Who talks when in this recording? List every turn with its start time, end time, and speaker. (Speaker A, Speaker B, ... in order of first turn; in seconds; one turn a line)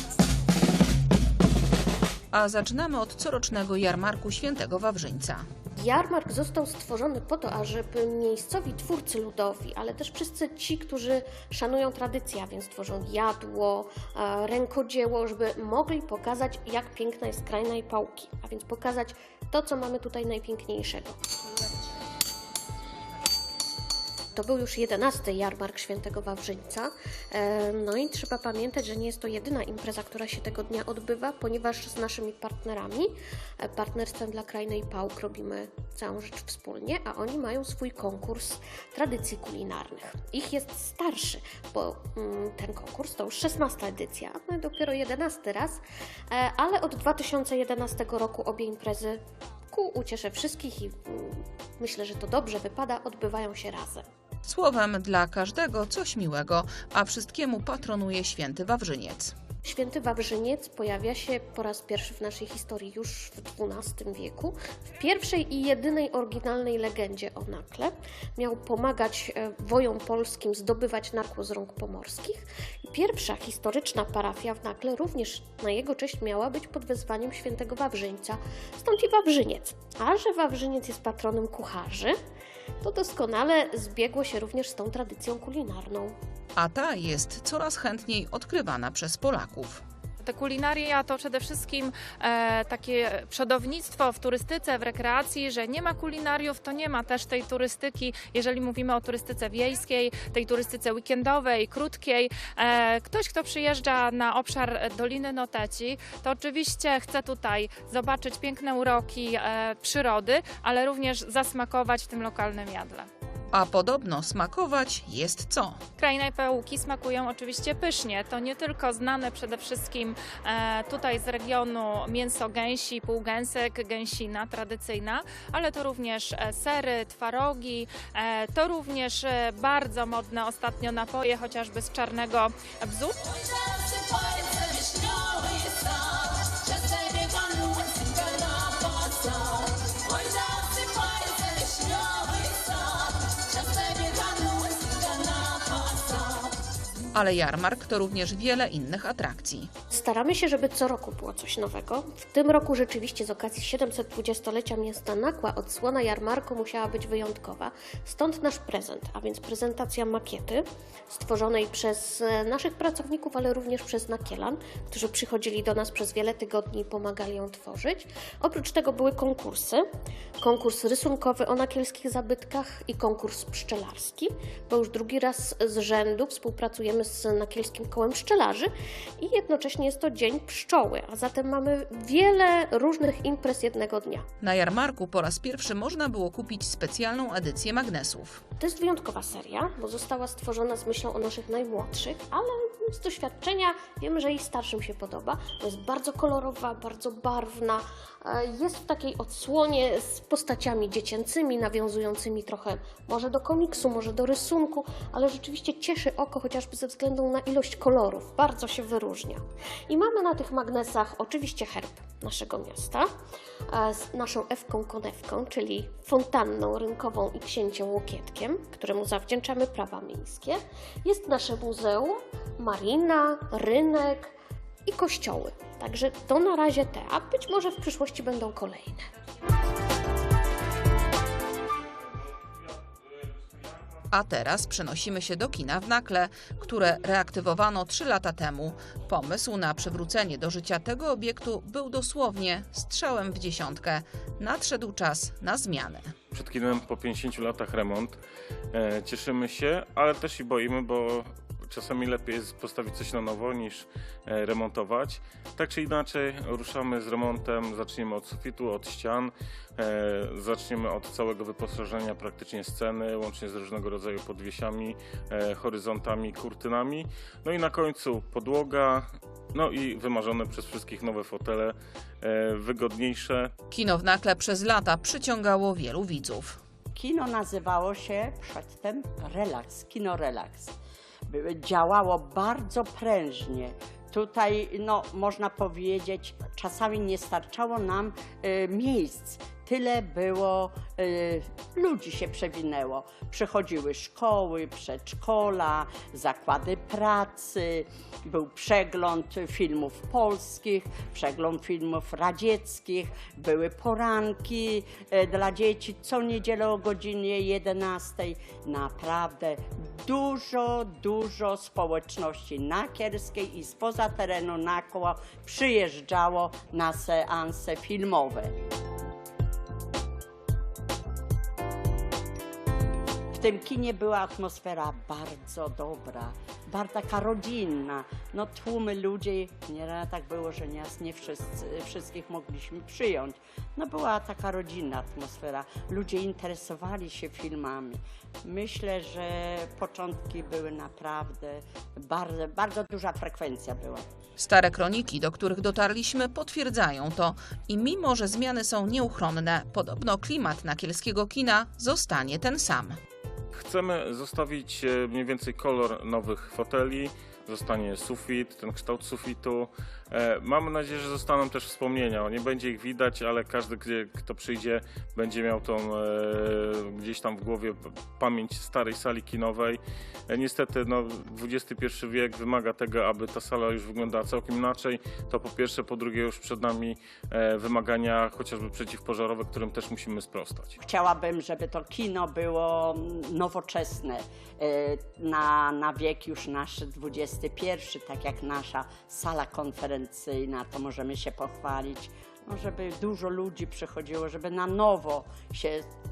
Speaker A: 2.3-5.4
Speaker B: 5.8-21.2
Speaker B: 24.3-49.2
Speaker B: 49.7-54.0
Speaker A: 54.5-59.3
Speaker B: 59.6-82.2
Speaker B: 82.8-86.1
Speaker A: 86.6-89.8
Speaker C: 90.2-113.1
Speaker A: 113.5-115.8
Speaker C: 116.0-133.2
Speaker C: 134.5-135.8
Speaker C: 136.5-137.2
Speaker C: 137.8-138.1
Speaker C: 138.7-139.0
Speaker C: 139.8-140.1
Speaker C: 140.6-142.3
Speaker C: 143.5-145.6
Speaker A: 147.2-149.7
Speaker B: 149.9-169.8
Speaker B: 170.4-184.3
Speaker A: 184.4-188.4
Speaker B: 188.6-213.1
Speaker B: 213.7-224.3
Speaker B: 224.9-229.1
Speaker D: 232.2-234.0
Speaker A: 234.1-246.1
Speaker D: 246.3-248.2
Speaker D: 248.7-273.5
Speaker A: 273.7-276.6
Speaker E: 276.9-280.7
Speaker E: 281.3-318.5
Speaker E: 323.3-344.0
Speaker A: 344.4-353.0
Speaker D: 353.6-380.8
Speaker E: 380.8-395.9